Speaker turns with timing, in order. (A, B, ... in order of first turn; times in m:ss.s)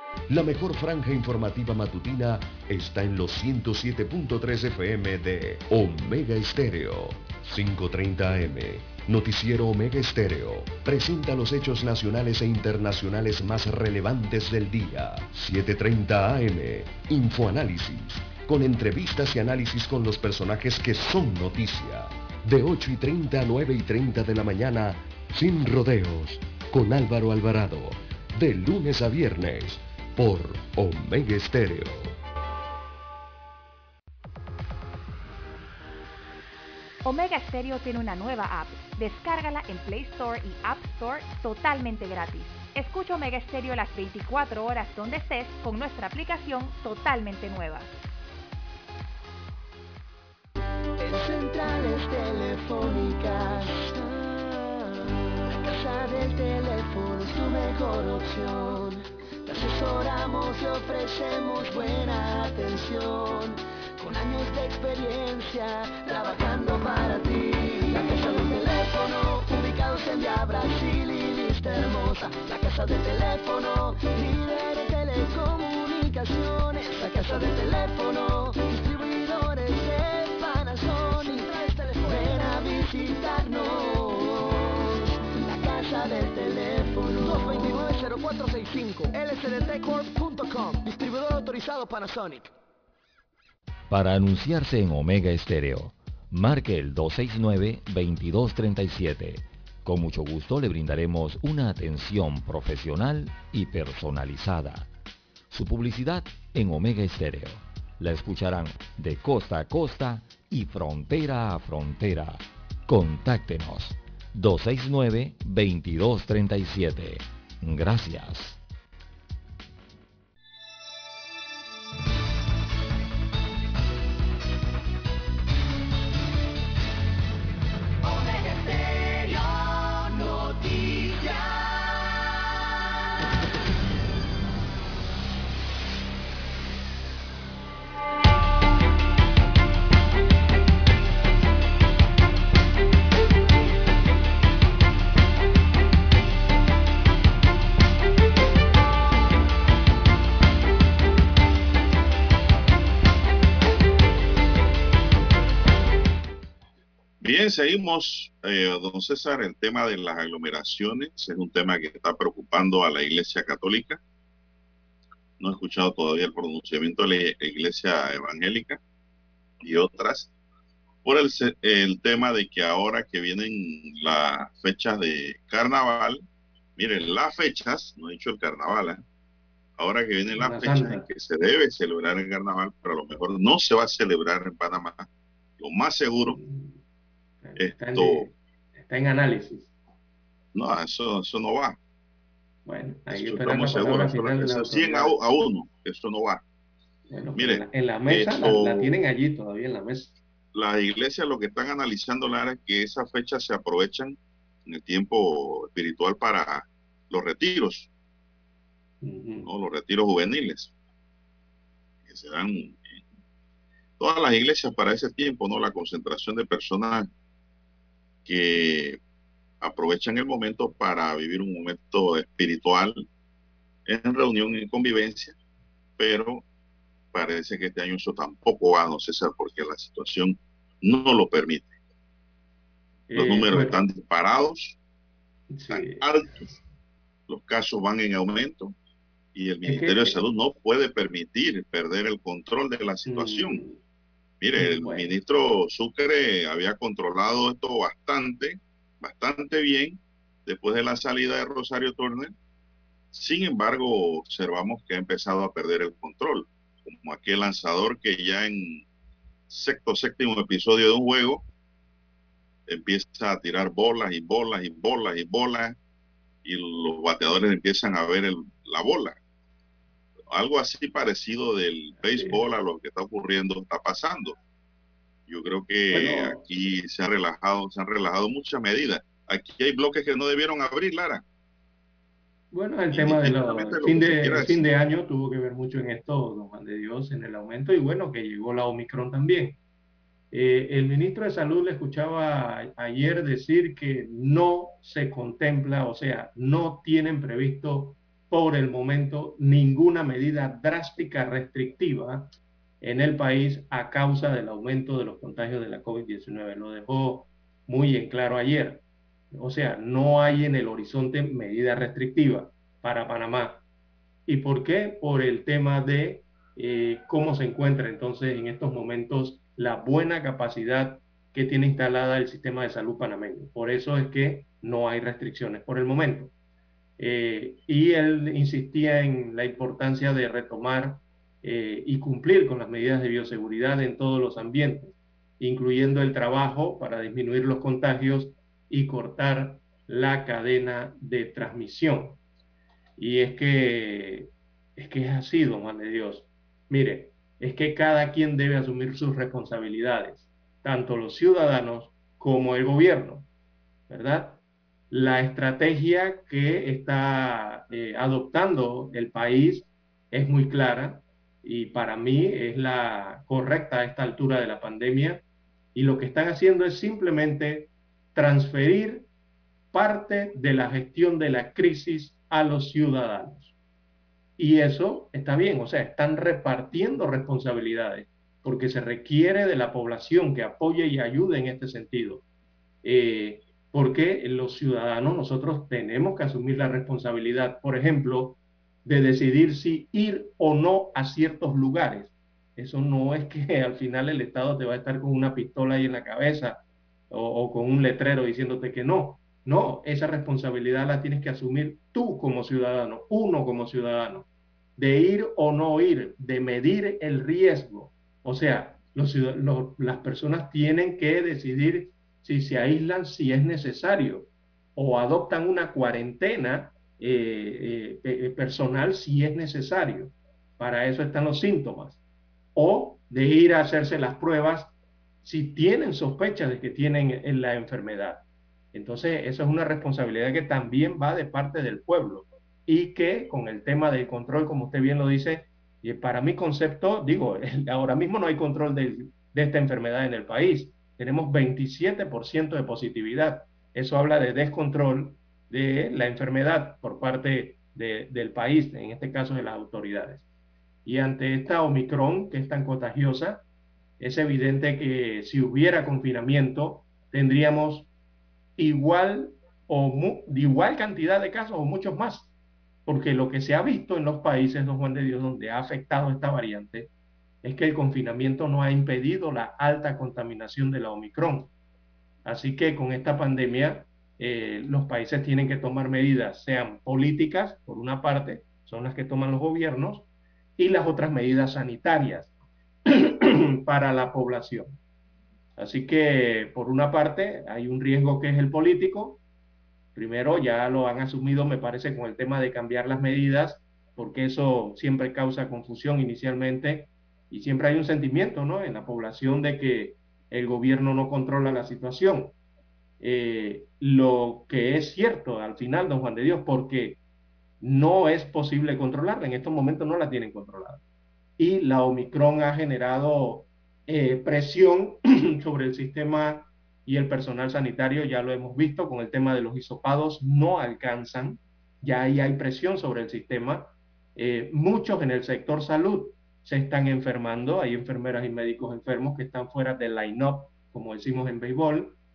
0:00.3-0:32.2 A
0:37.0-0:47.9 B
0:51.0-0:54.5 C
0:55.5-1:32.5 C
1:33.9-1:44.9 D
1:45.5-1:58.6 D
2:08.0-2:12.4 C
2:37.2-2:44.0 E
2:45.4-2:48.8 E
2:49.6-2:50.3 E
2:51.0-2:56.2 E
2:56.8-2:59.0 E
2:59.8-3:05.1 E
3:00.4-3:01.0 F
3:05.6-3:06.4 E
3:06.3-3:06.8 F
3:07.4-3:09.7 F
3:07.6-3:08.3 E
3:10.5-3:11.8 E
3:12.7-3:15.1 F
3:13.1-3:16.4 E
3:17.1-3:20.1 F
3:17.4-3:18.9 E
3:20.5-3:27.9 E
3:29.0-3:29.5 F
3:29.5-3:30.7 E
3:32.1-3:33.0 E
3:34.0-3:37.1 E
3:38.3-3:39.0 E
3:39.6-3:43.1 E
3:43.9-3:45.4 E
3:46.0-3:46.4 E
3:47.1-3:51.7 E
3:53.1-3:53.8 F
3:53.1-3:54.8 E
3:55.5-3:56.0 F
3:55.7-3:56.4 E
3:57.3-3:58.7 E
3:59.4-4:03.6 E
3:59.6-4:00.2 F
4:03.1-4:03.8 F
4:04.4-4:12.3 E
4:04.6-4:05.2 F
4:13.1-4:18.8 E
4:19.5-4:21.4 E
4:22.7-4:25.8 E
4:26.4-4:29.2 E
4:30.3-4:34.4 E
4:32.0-4:32.4 F
4:35.3-4:41.2 E
4:35.9-4:36.4 F
4:42.5-4:49.6 F
4:42.9-4:44.7 E
4:50.3-5:02.3 F
5:02.8-5:13.6 F
5:14.3-5:26.3 F
5:27.0-5:42.2 F
5:43.0-5:53.3 F
5:53.9-5:54.4 F
5:54.9-6:05.2 F
6:05.7-6:09.1 F
6:09.7-6:13.5 F
6:14.4-6:22.2 F
6:22.8-6:44.3 F
6:44.8-7:02.0 F
7:02.6-7:04.7 F
7:05.2-7:08.2 F
7:08.7-7:30.2 F
7:30.8-7:33.4 F
7:34.0-7:37.9 F
7:38.6-7:42.3 F
7:42.9-7:46.9 F
7:47.4-7:51.5 F
7:52.2-8:02.3 F
8:02.9-8:04.8 F
8:05.6-8:09.2 F
8:10.0-8:22.3 F
8:23.0-8:27.0 F
8:27.6-8:30.8 F
8:31.4-8:52.0 F